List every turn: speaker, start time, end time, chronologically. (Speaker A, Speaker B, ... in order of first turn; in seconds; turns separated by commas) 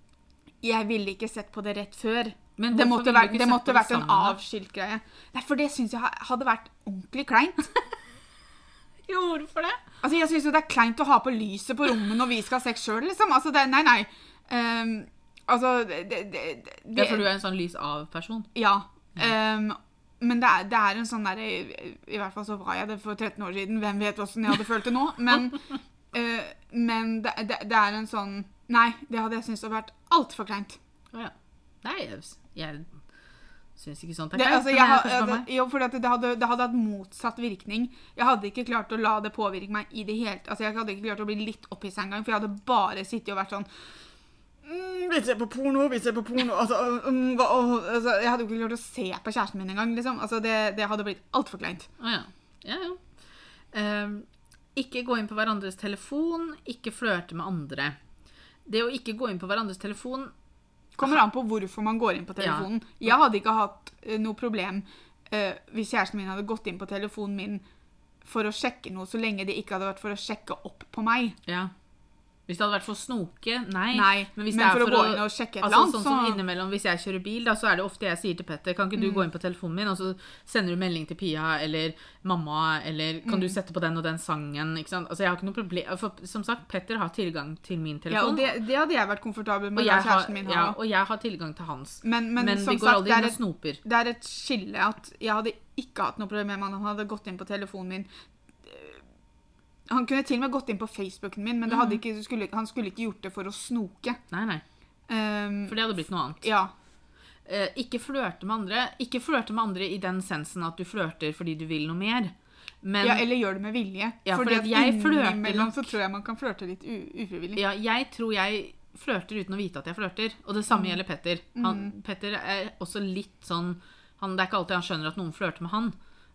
Speaker A: 0.6-7.7, Speaker B: 2.6-4.4, Speaker B: 9.0-9.8, Speaker A: 10.0-17.3, Speaker B: 16.9-18.5, Speaker A: 18.5-30.8, Speaker B: 31.1-33.0, Speaker B: 33.8-35.5, Speaker A: 34.3-43.7, Speaker A: 44.6-51.9, Speaker B: 52.0-58.0, Speaker B: 58.6-60.3, Speaker A: 61.0-67.6, Speaker B: 62.4-63.1, Speaker A: 68.2-71.4, Speaker B: 71.5-71.7, Speaker B: 72.5-88.5, Speaker A: 73.9-76.4, Speaker A: 78.9-79.2, Speaker A: 83.2-83.5, Speaker A: 88.1-90.8, Speaker B: 89.7-93.8, Speaker A: 92.0-98.1, Speaker A: 98.6-99.0, Speaker A: 99.9-104.2, Speaker B: 101.7-102.0, Speaker B: 104.3-104.6, Speaker A: 105.1-105.9, Speaker B: 105.7-106.4, Speaker A: 106.4-106.7, Speaker B: 107.4-113.2, Speaker A: 113.0-117.6, Speaker B: 114.2-115.9, Speaker B: 117.5-126.0, Speaker A: 120.7-121.0, Speaker A: 121.5-121.9